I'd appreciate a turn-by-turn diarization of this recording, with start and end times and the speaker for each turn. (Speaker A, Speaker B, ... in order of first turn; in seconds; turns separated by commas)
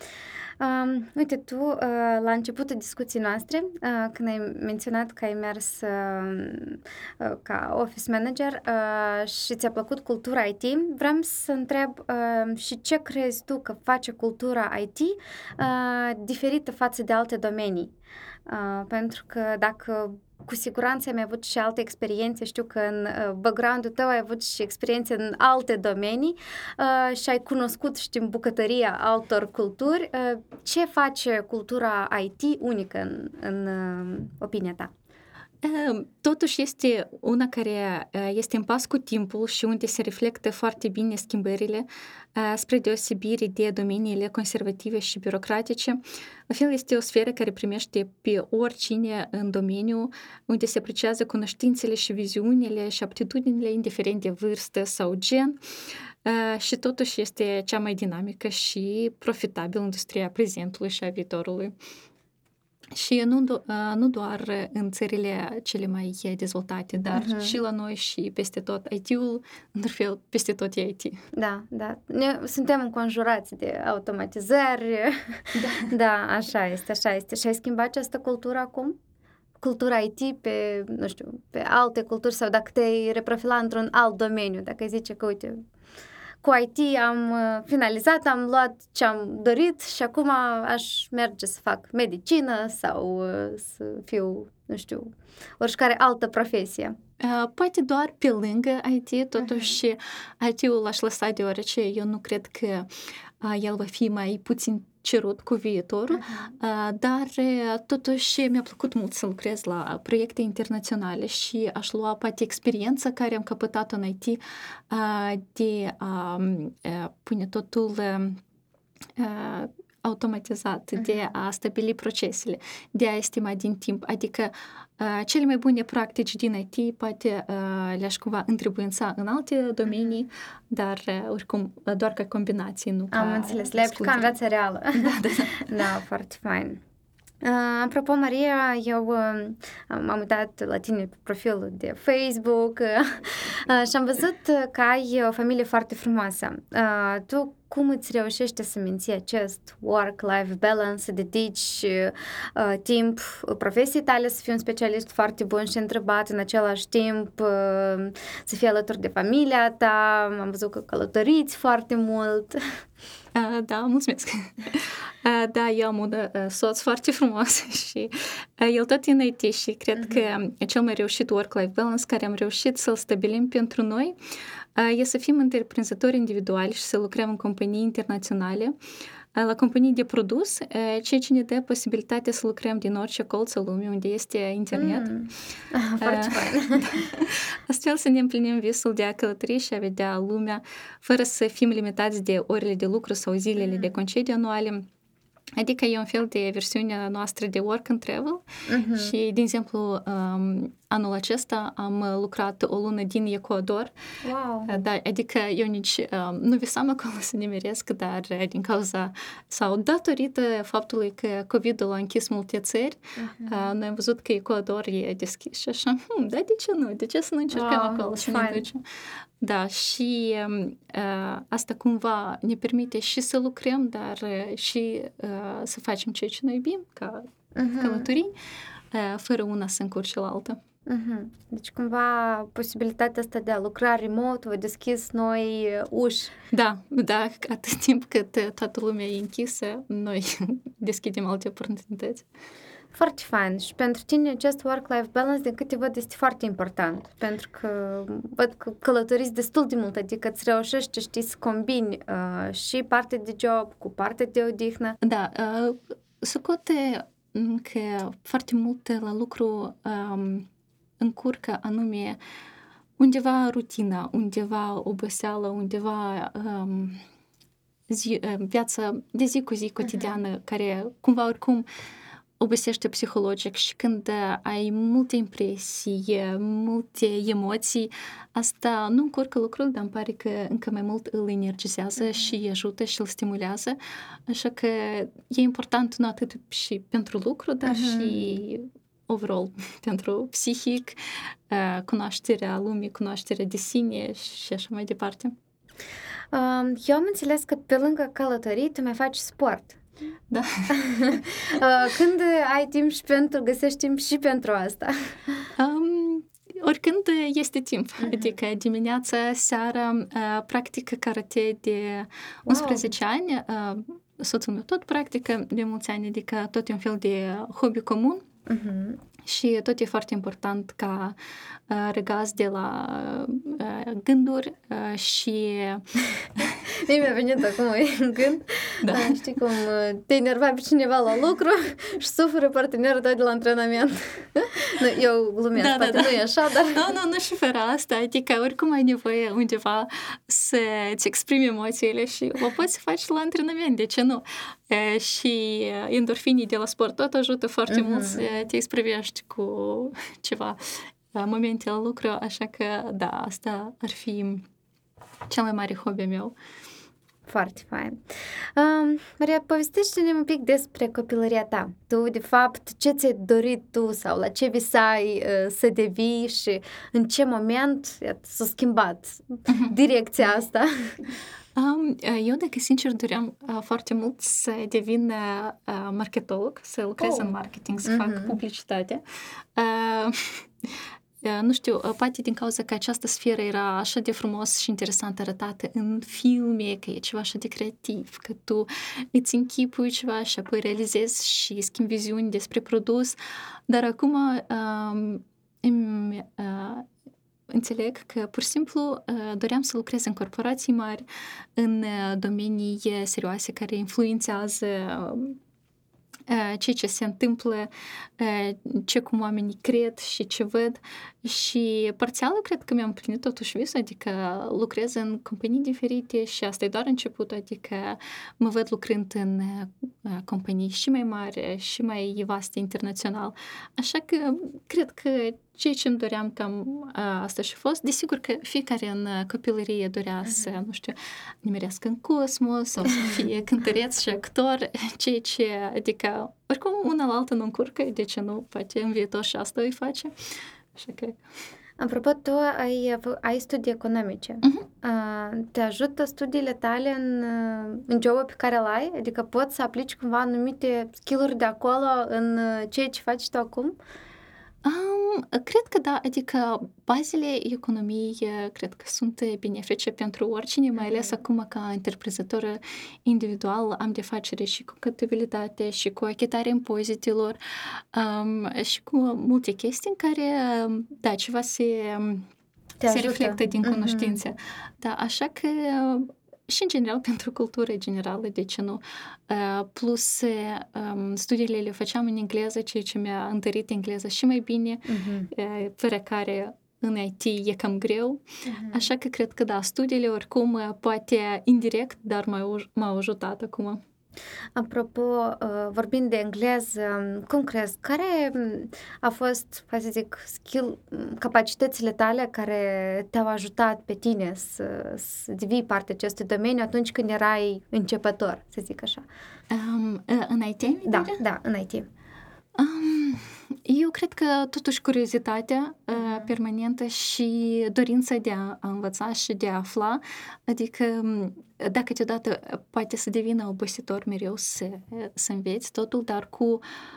Speaker A: 0.6-17.9, Speaker A: 18.5-34.9, Speaker B: 35.6-55.6, Speaker B: 56.2-61.7, Speaker B: 62.9-71.2, Speaker A: 67.1-67.6, Speaker A: 71.3-79.0, Speaker B: 75.5-75.9, Speaker A: 79.6-85.6, Speaker A: 86.4-97.0, Speaker B: 97.2-102.9, Speaker A: 99.4-99.7, Speaker B: 103.4-118.4, Speaker A: 106.1-106.5, Speaker B: 119.2-134.3, Speaker A: 121.0-121.3, Speaker A: 129.9-130.2, Speaker A: 133.1-136.8, Speaker B: 134.9-135.8, Speaker A: 137.4-162.6, Speaker B: 163.3-174.2, Speaker A: 170.0-170.3, Speaker B: 174.8-178.8, Speaker B: 179.3-185.1, Speaker A: 184.7-187.1, Speaker B: 186.0-194.8, Speaker A: 193.6-193.9, Speaker B: 195.6-198.4, Speaker A: 198.7-199.1, Speaker B: 198.9-203.9, Speaker A: 204.2-204.8, Speaker B: 204.7-218.8, Speaker A: 213.2-213.7, Speaker A: 217.5-218.7, Speaker B: 219.4-227.3, Speaker A: 227.6-228.1, Speaker B: 227.8-228.3, Speaker B: 228.9-230.6, Speaker A: 230.9-236.3, Speaker B: 236.5-242.3, Speaker A: 242.9-255.0, Speaker B: 255.0-260.5, Speaker B: 261.0-262.2, Speaker B: 263.0-267.0, Speaker B: 267.9-271.7, Speaker A: 269.8-270.1, Speaker B: 272.4-295.4, Speaker A: 287.6-288.3, Speaker A: 296.3-299.8, Speaker B: 300.3-301.2, Speaker A: 300.7-305.4, Speaker B: 305.6-318.2, Speaker A: 308.0-308.3, Speaker A: 312.5-312.9, Speaker A: 318.5-319.0, Speaker B: 319.2-321.2, Speaker B: 321.7-325.9, Speaker A: 326.5-336.9, Speaker B: 328.8-329.2, Speaker B: 335.6-354.4, Speaker A: 347.7-348.3, Speaker B: 355.3-356.3, Speaker A: 357.3-358.0, Speaker A: 358.6-371.0, Speaker B: 371.6-379.0, Speaker A: 377.0-377.3, Speaker A: 377.9-378.4, Speaker B: 379.6-393.2, Speaker B: 393.7-396.9, Speaker B: 397.5-401.0, Speaker B: 401.6-405.4, Speaker B: 406.3-440.1, Speaker B: 440.7-441.2, Speaker A: 441.8-453.8, Speaker B: 454.6-472.3, Speaker A: 460.8-461.1, Speaker A: 472.8-474.2, Speaker B: 472.9-493.8, Speaker A: 484.9-485.3, Speaker A: 488.4-488.9, Speaker A: 494.6-509.1, Speaker B: 509.5-511.2, Speaker A: 510.9-511.9, Speaker B: 512.6-526.6, Speaker A: 515.9-516.3